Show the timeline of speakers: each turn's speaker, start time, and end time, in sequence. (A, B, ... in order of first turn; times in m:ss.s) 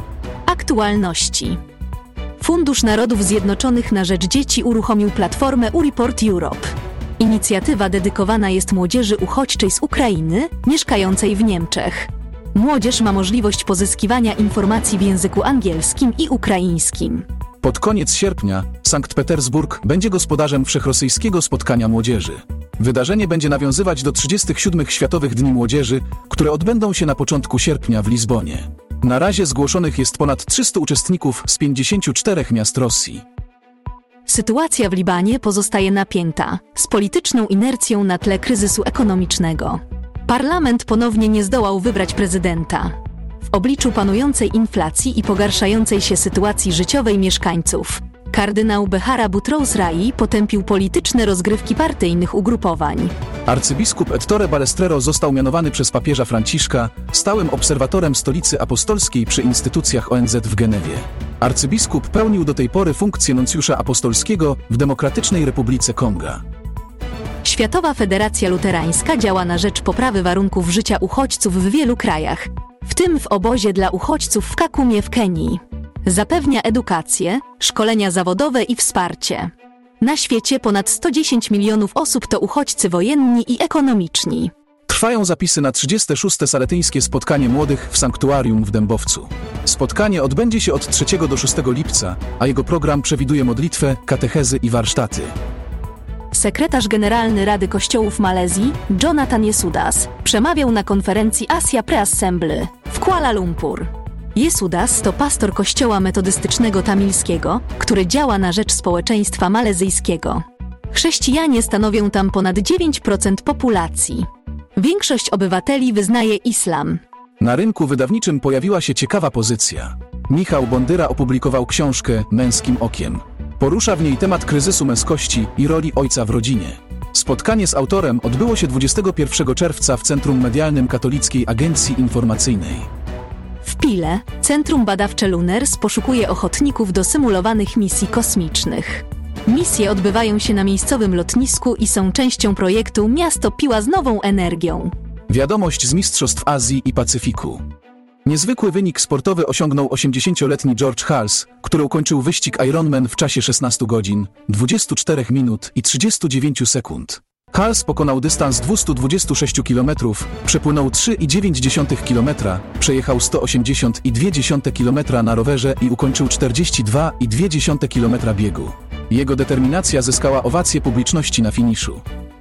0:00.5-0:01.6 A
0:02.4-0:17.2 A
0:17.6-0:33.2 B
0:34.2-0:43.0 A
0:43.5-0:53.1 A
0:53.4-1:06.4 B
1:07.4-1:24.5 A
1:24.9-1:35.3 B
1:36.3-1:57.0 A
1:57.4-2:12.9 B
2:13.6-2:24.9 A
2:25.3-2:27.6 B
2:28.2-2:52.0 B